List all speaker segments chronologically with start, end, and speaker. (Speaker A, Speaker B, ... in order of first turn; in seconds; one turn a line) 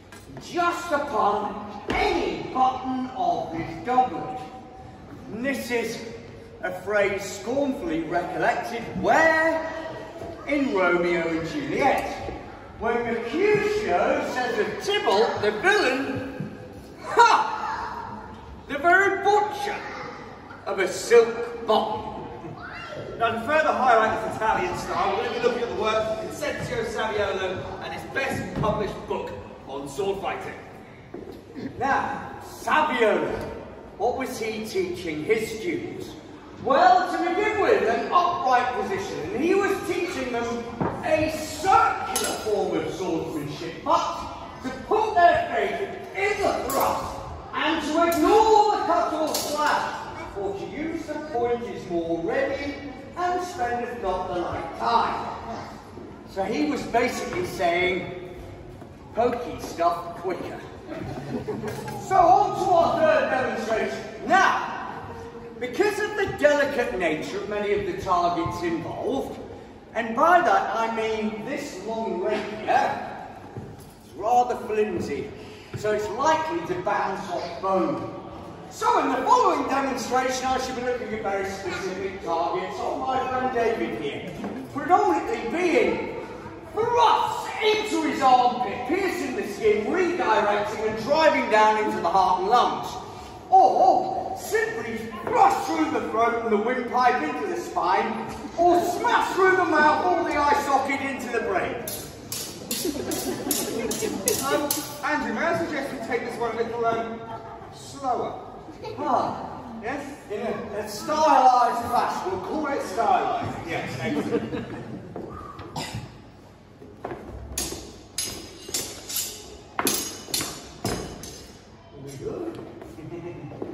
Speaker A: 0.3-4.4
Speaker A: 5.2-6.1
Speaker A: 6.6-9.6
Speaker A: 10.4-16.4
Speaker A: 17.0-17.9
Speaker A: 18.6-19.8
Speaker A: 20.6-22.2
Speaker B: 23.1-30.6
Speaker A: 31.8-55.4
Speaker A: 56.2-58.1
Speaker A: 59.1-60.6
Speaker A: 61.9-64.9
Speaker A: 65.6-69.4
Speaker A: 69.9-73.2
Speaker A: 74.0-78.1
Speaker A: 78.7-102.0
Speaker B: 104.3-107.1
Speaker B: 107.7-108.4
Speaker A: 108.9-113.4
Speaker B: 113.4-114.5
Speaker A: 121.9-122.6
Speaker B: 123.0-123.4